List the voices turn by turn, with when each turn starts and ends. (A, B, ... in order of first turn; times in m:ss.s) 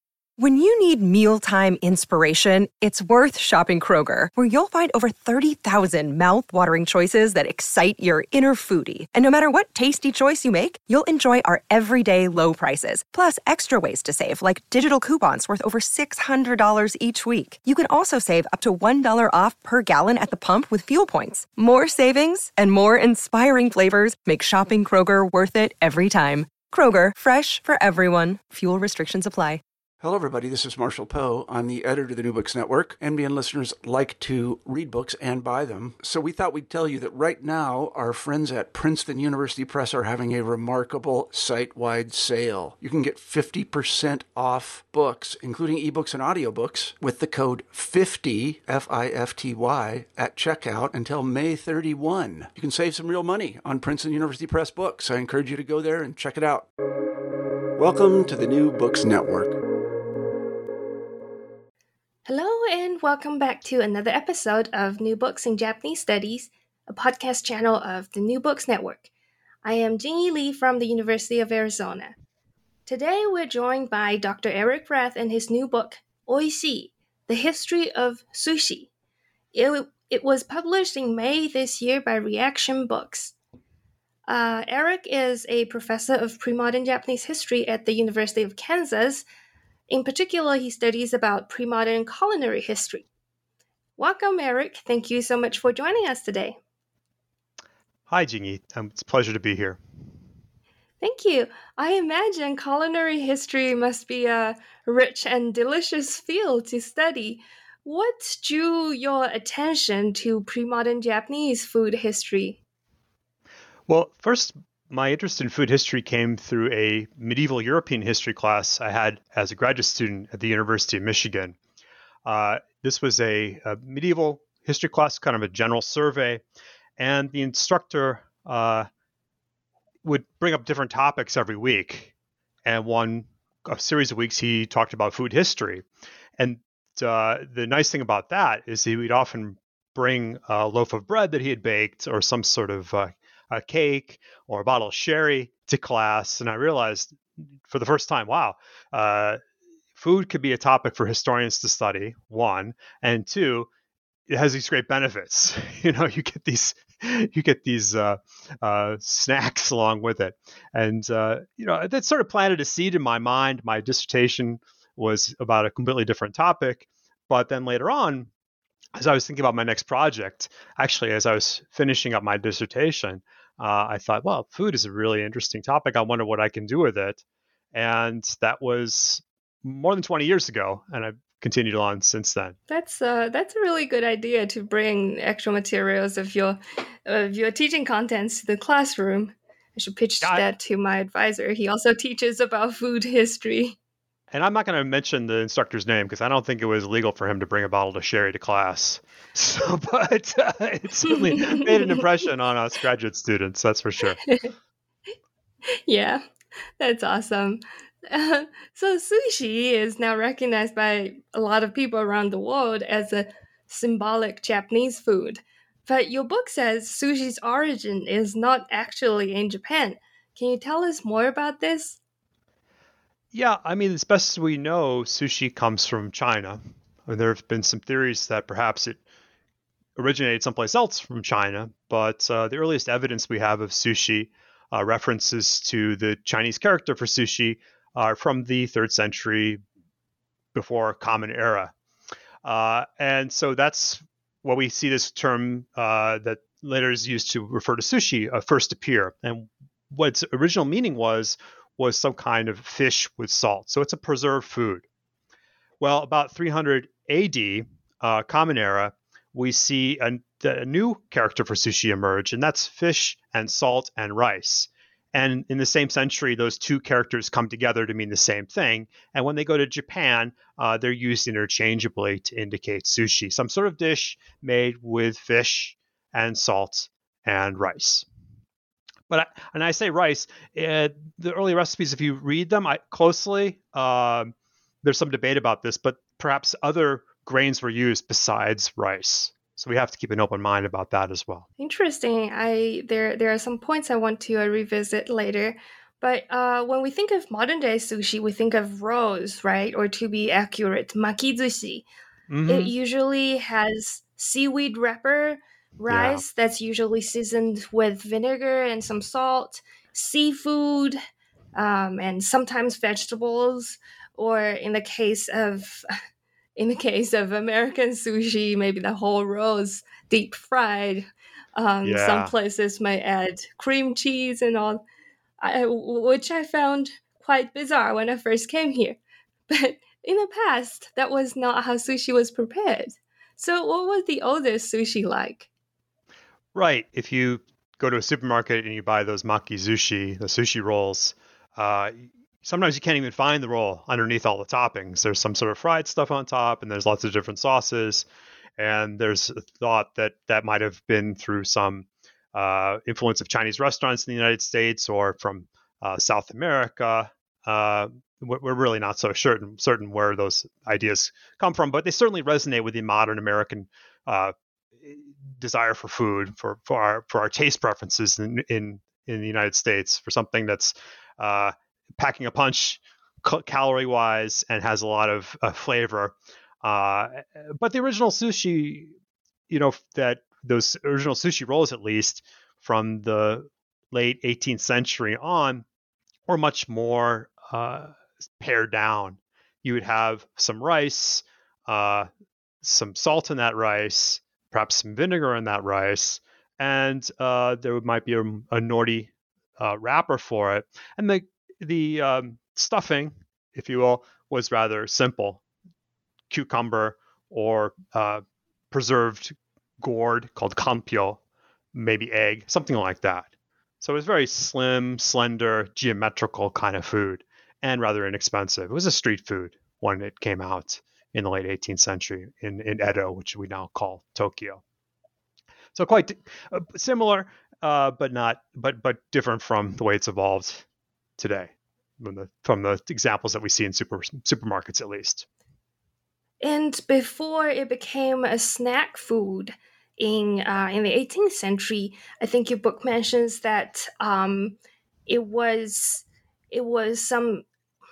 0:00.4-0:29.6 A
0:30.0-0:56.7 B
0:57.8-0:59.6 B
1:02.2-1:09.1 C
1:09.6-1:12.2 C
1:12.8-1:18.9 C
1:19.5-1:23.3 C
1:24.3-1:29.2 C
1:29.9-1:33.0 C
1:34.0-1:36.6 C
1:38.1-1:39.8 D
1:41.0-1:52.6 C
1:53.9-2:01.6 D
2:02.2-2:06.4 D
2:07.0-2:08.9 D
2:10.0-2:12.1 D
2:12.6-2:15.8 D
2:16.4-2:29.4 D
2:30.0-2:33.7 D
2:34.3-2:48.3 D
2:48.9-2:57.2 D
2:57.7-3:02.6 D
3:02.7-3:13.8 C
3:14.3-3:24.2 D
3:21.4-3:21.7 C
3:24.2-3:24.5 C
3:25.8-3:26.2 C
3:26.8-3:42.0 C
3:43.3-3:49.0 D
3:50.0-3:59.6 D
4:00.5-4:01.7 D
4:02.4-4:14.8 D
4:15.8-4:38.0 D
4:39.1-4:51.4 D
4:51.6-5:01.9 C
5:02.3-5:02.7 D
5:02.5-5:11.0 C
5:05.9-5:06.2 D
5:11.5-5:15.8 C
5:16.6-5:24.8 C
5:21.8-5:22.3 D
5:25.4-5:35.5 C
5:36.5-5:48.1 D
5:48.6-6:18.9 D
6:19.5-6:25.6 D
6:26.3-6:32.1 D
6:32.6-6:45.4 D
6:46.3-6:51.2 D
6:51.7-6:53.3 D
6:53.8-7:04.6 D
7:05.7-7:10.6 D
7:11.2-7:15.2 D
7:16.4-7:27.4 C